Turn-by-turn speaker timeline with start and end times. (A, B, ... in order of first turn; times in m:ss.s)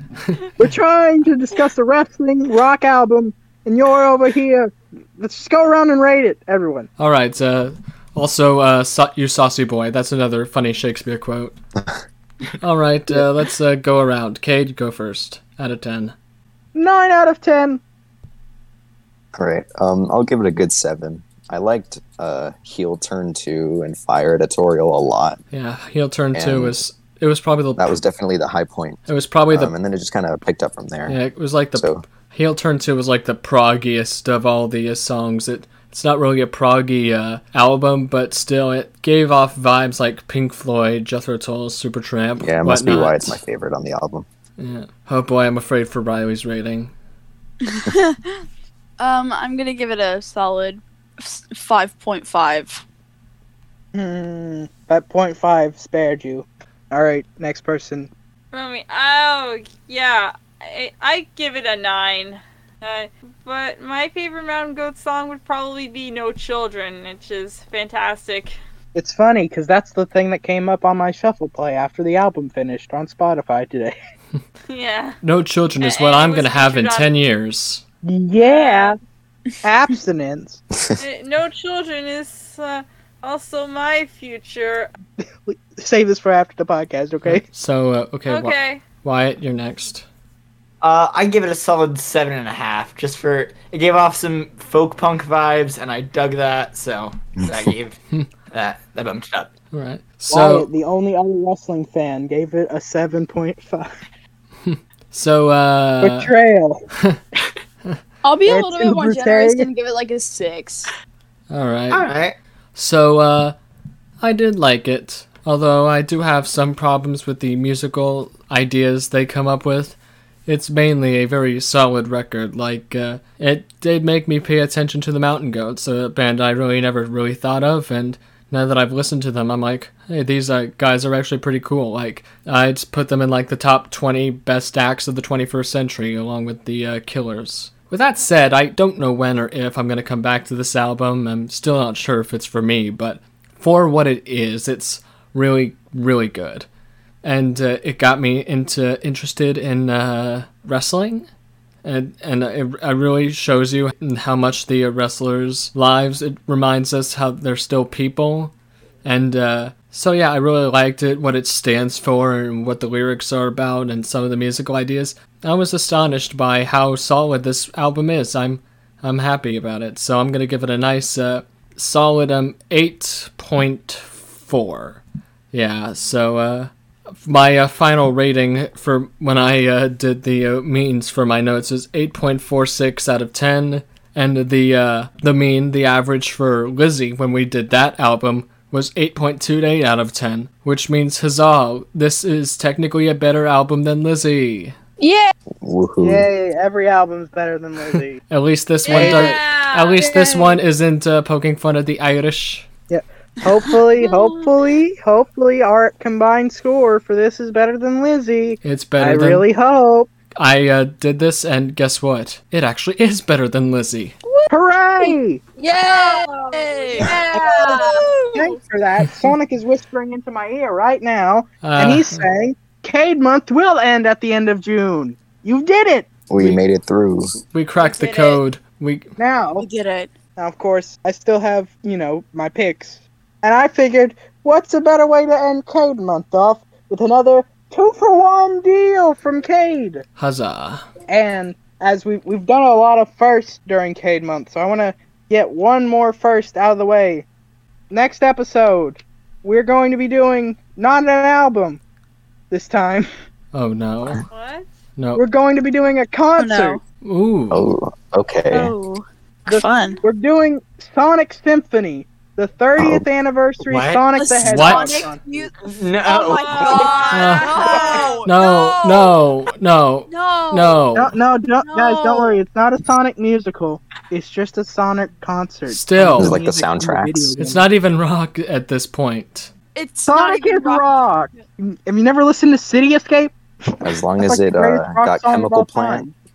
0:00.2-0:00.5 A
0:00.6-0:06.9 B
0:07.0-0:11.6 A
0:12.6-0:16.1 A
0:16.7-0:17.8 B
0:19.3-0:25.4 C
0:25.5-0:28.0 A
0:26.3-0:26.8 C
0:27.8-0:31.2 C
0:29.1-0:29.7 A
0:31.1-0:43.4 A
0:31.7-0:32.0 C
0:42.4-0:44.2 C
0:44.6-0:46.9 A
0:47.7-0:48.4 D
0:49.0-0:52.8 D
0:53.9-0:58.1 B
0:58.5-1:08.6 E
1:08.9-1:13.9 B
1:14.7-1:15.2 E
1:15.2-1:17.8 A
1:15.8-1:17.1 E
1:18.0-1:19.0 B
1:18.4-1:19.0 E
1:19.6-1:20.6 B
1:21.0-1:24.9 E
1:25.2-1:27.4 B
1:27.2-1:30.0 A
1:28.3-1:28.8 E
1:30.8-1:38.0 F
1:37.4-1:37.7 C
1:38.5-1:39.5 F
1:39.7-1:40.7 A
1:40.3-1:43.9 B
1:44.6-1:46.3 A
1:46.0-1:46.8 B
1:48.2-1:50.9 D
1:48.5-1:49.7 B
1:51.5-1:52.1 A
1:51.9-1:52.3 F
1:52.7-1:53.6 A
1:54.2-2:26.6 A
2:27.2-2:31.3 A
2:31.8-2:38.5 A
2:39.0-2:55.0 A
2:55.5-3:14.8 A
3:15.0-3:15.3 D
3:15.6-3:16.2 C
3:16.0-3:18.2 B
3:18.3-3:22.7 A
3:18.9-3:20.1 E
3:18.9-3:19.4 B
3:20.0-3:20.6 B
3:22.9-3:30.1 B
3:24.0-3:24.5 D
3:28.6-3:29.4 A
3:30.4-3:34.2 A
3:34.2-3:38.6 D
3:34.5-3:35.4 B
3:35.9-3:38.0 E
3:37.0-3:46.6 B
3:41.6-3:42.2 A
3:46.3-3:47.3 C
3:47.5-3:49.1 A
3:47.8-3:48.4 D
3:49.2-3:49.6 B
3:49.6-3:50.1 D
3:50.4-4:00.0 B
4:00.2-4:00.9 A
4:01.1-4:07.2 B
4:07.9-4:11.8 B
4:12.5-4:13.1 B
4:13.5-4:14.2 A
4:14.3-4:14.6 E
4:15.0-4:15.2 A
4:15.1-4:16.8 B
4:16.4-4:16.8 D
4:17.0-4:17.6 A
4:17.5-4:18.7 C
4:18.5-4:20.0 D
4:19.5-4:25.5 B
4:22.8-4:23.0 C
4:23.6-4:24.1 F
4:24.1-4:25.5 D
4:24.4-4:25.0 A
4:25.6-4:28.2 F
4:26.0-4:29.2 D
4:26.3-4:28.2 E
4:27.1-4:27.5 A
4:28.2-4:31.1 A
4:30.1-4:30.8 D
4:30.9-4:37.7 B
4:31.6-4:32.4 D
4:35.7-4:36.4 A
4:36.2-4:37.4 C
4:37.4-4:39.5 A
4:39.7-4:40.9 D
4:40.1-4:46.1 B
4:43.8-4:46.1 C